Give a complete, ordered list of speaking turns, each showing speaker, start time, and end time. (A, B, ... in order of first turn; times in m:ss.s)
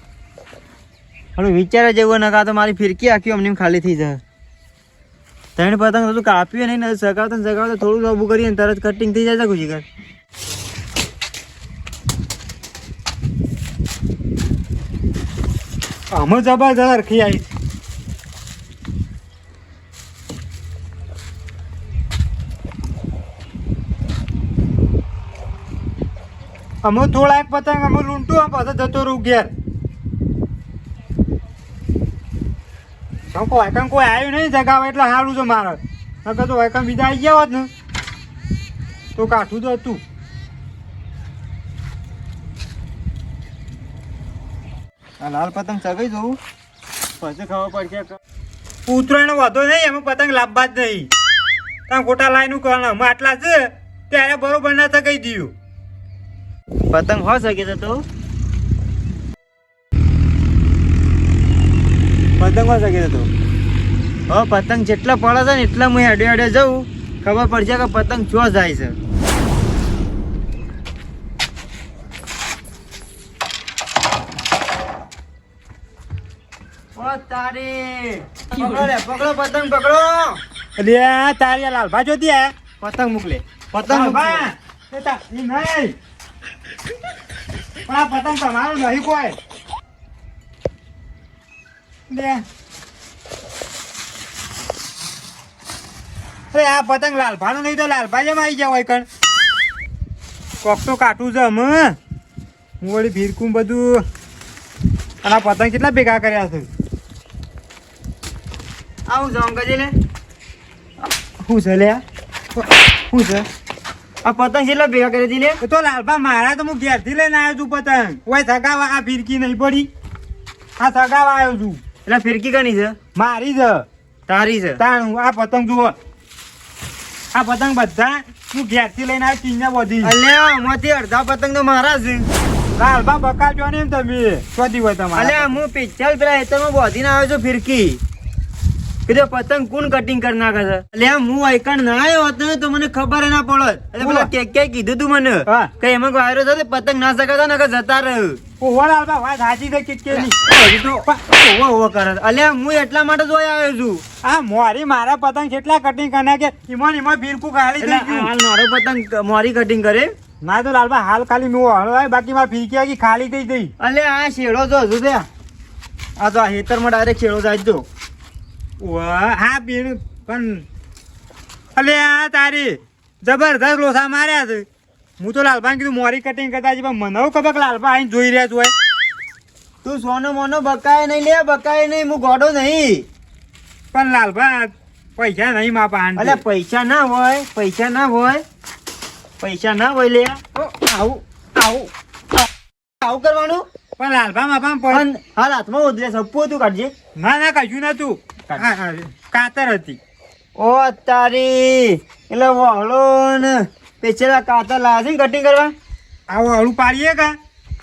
0:01.4-0:04.2 A
0:05.6-0:09.8 A
0:16.1-0:17.5 B
0:26.8-0:29.5 B
0:33.3-0:37.7 B
0:39.2-0:40.0 B
0:45.2-0:46.4 A
0:47.2-0:48.2 A
0:48.9-0:51.1 B
0:51.9-0:55.5 B
0:56.9-0:58.0 A
1:02.4-1:03.3 B
1:04.3-1:09.0 A
1:16.9-1:20.4 A
1:20.8-1:22.5 B
1:22.8-1:24.5 A
1:23.9-1:25.9 B
1:27.9-1:29.4 B
1:32.1-1:32.4 B
1:36.5-1:39.0 B
1:40.6-1:42.0 B
1:42.8-1:44.0 B
1:45.2-1:46.7 B
1:49.1-1:49.9 A
1:51.4-1:52.0 A
1:52.6-1:53.4 B
1:54.2-1:55.6 A
1:55.6-1:59.9 B
2:00.8-2:01.8 B
2:02.0-2:03.0 A
2:03.1-2:03.8 B
2:04.3-2:04.8 A
2:04.8-2:05.9 B
2:07.3-2:10.2 B
2:10.0-2:12.3 A
2:12.8-2:15.6 B
2:15.1-2:18.0 A
2:19.1-2:28.4 A
2:24.0-2:24.3 B
2:25.5-2:25.7 B
2:28.6-2:30.4 B
2:30.1-2:34.0 A
2:34.2-2:38.3 B
2:37.8-2:40.1 A
2:40.4-2:43.7 B
2:43.8-2:45.3 A
2:46.2-2:47.9 A
2:48.8-2:50.6 B
2:51.8-2:54.6 B
2:55.2-2:58.7 B
2:59.8-3:03.1 A
3:03.9-3:06.4 B
3:06.2-3:08.4 A
3:09.4-3:10.4 A
3:10.6-3:11.9 B
3:13.0-3:13.6 A
3:14.0-3:15.0 B
3:14.9-3:16.9 A
3:17.2-3:20.0 B
3:20.6-3:25.7 A
3:26.3-3:27.4 B